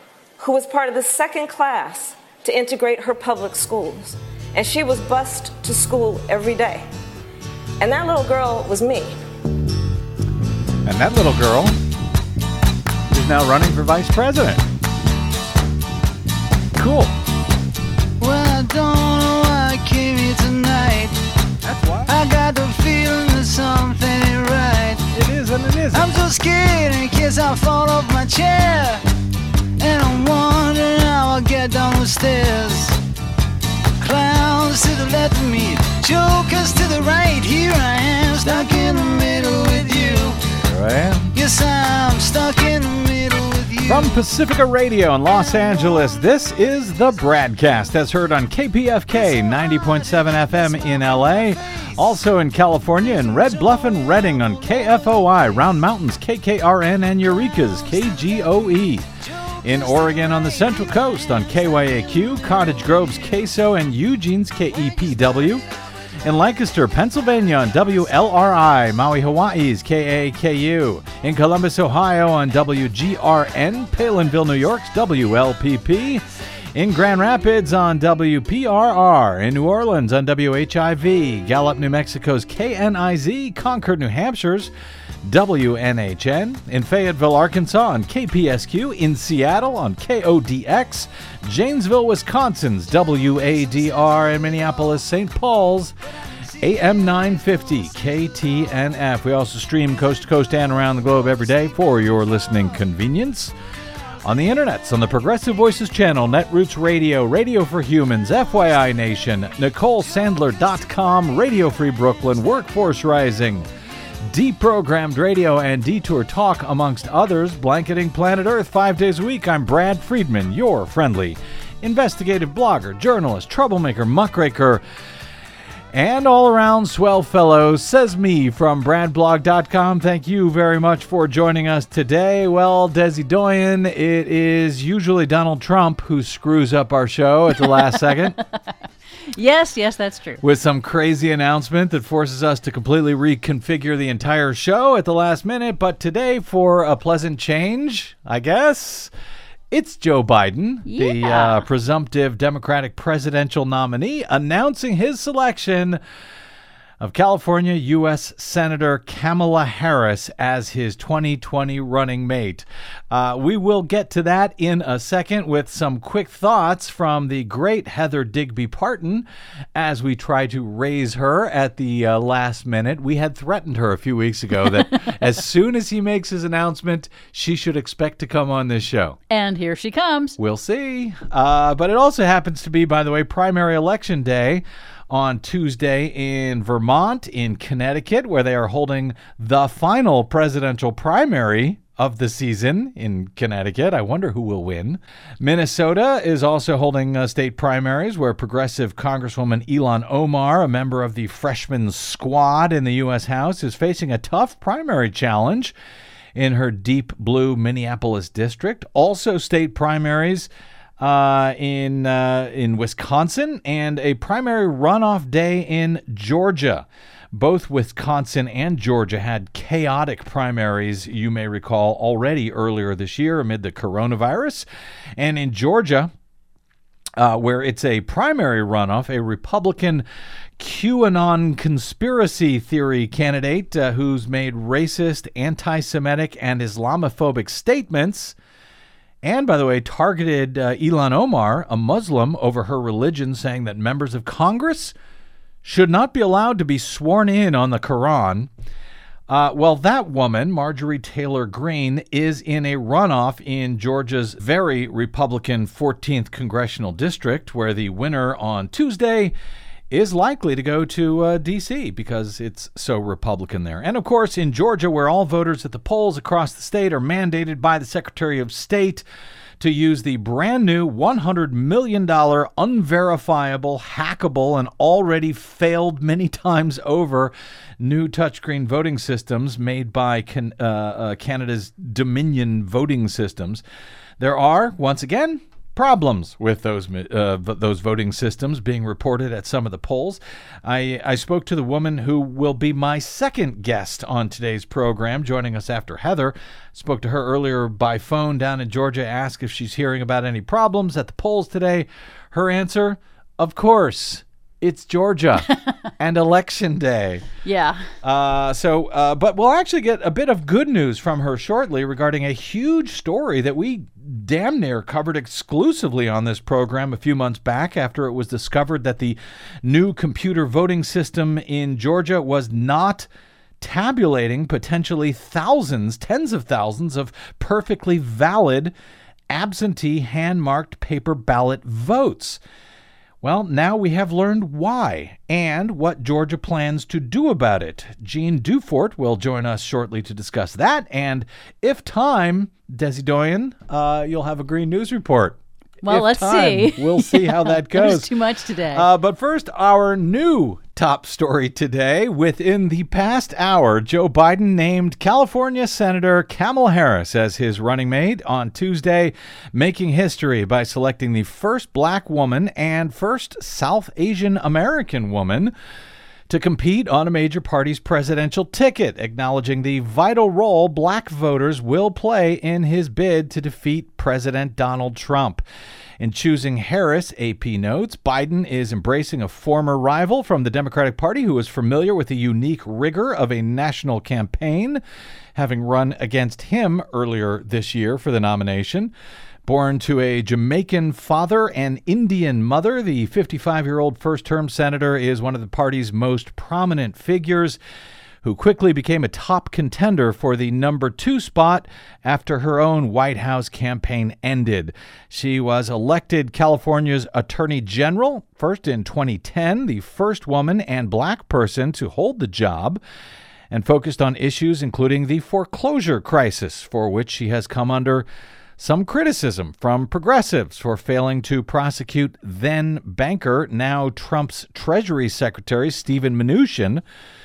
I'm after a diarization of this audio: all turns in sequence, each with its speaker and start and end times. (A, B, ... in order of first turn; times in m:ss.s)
0:00.4-0:06.8 A
0:07.8-0:09.1 A
0:10.8-0:11.7 B
0:13.1-0:14.6 B
0:16.8-0:17.1 B
0:18.2-0:21.2 C
0:21.6-0:22.1 B
0:22.1-0:25.0 C
0:25.1-0:26.1 B
0:25.9-0:29.0 C
0:29.8-0:33.0 C
0:34.0-0:40.4 C
0:40.6-0:41.3 B
0:41.3-0:44.2 C
0:43.9-0:59.1 B
0:49.2-0:51.4 C
0:59.6-1:05.6 B
1:06.2-1:16.2 B
1:16.7-1:24.7 B
1:25.2-1:35.9 B
1:36.6-1:43.5 B
1:44.2-1:53.7 B
1:54.3-2:04.8 B
2:05.9-2:18.4 B
2:17.6-2:18.1 D
2:19.3-2:20.4 D
2:20.4-2:29.1 B
2:29.7-2:36.0 B
2:30.8-2:31.6 D
2:37.0-2:59.2 B
2:59.3-3:00.4 D
3:00.4-3:25.7 B
3:26.3-3:30.5 B
3:31.0-3:44.6 B
3:45.2-3:46.1 B
3:47.2-3:50.0 B
3:50.6-3:58.4 B
3:59.2-4:05.0 B
4:05.6-4:08.5 B
4:09.3-4:19.3 B
4:19.9-4:29.0 B
4:29.6-4:43.6 B
4:44.2-5:05.5 B
5:06.0-5:07.2 B
5:07.4-5:07.9 D
5:08.0-5:23.1 B
5:23.6-5:28.7 B
5:29.3-5:32.4 B
5:33.2-5:48.1 B
5:45.8-5:48.8 D
5:48.7-6:05.5 B
6:06.3-6:15.4 B
6:16.0-6:24.8 B
6:25.3-6:28.9 B
6:29.4-6:37.6 B
6:38.2-6:52.8 B
6:53.5-6:58.1 B
6:58.6-7:06.8 B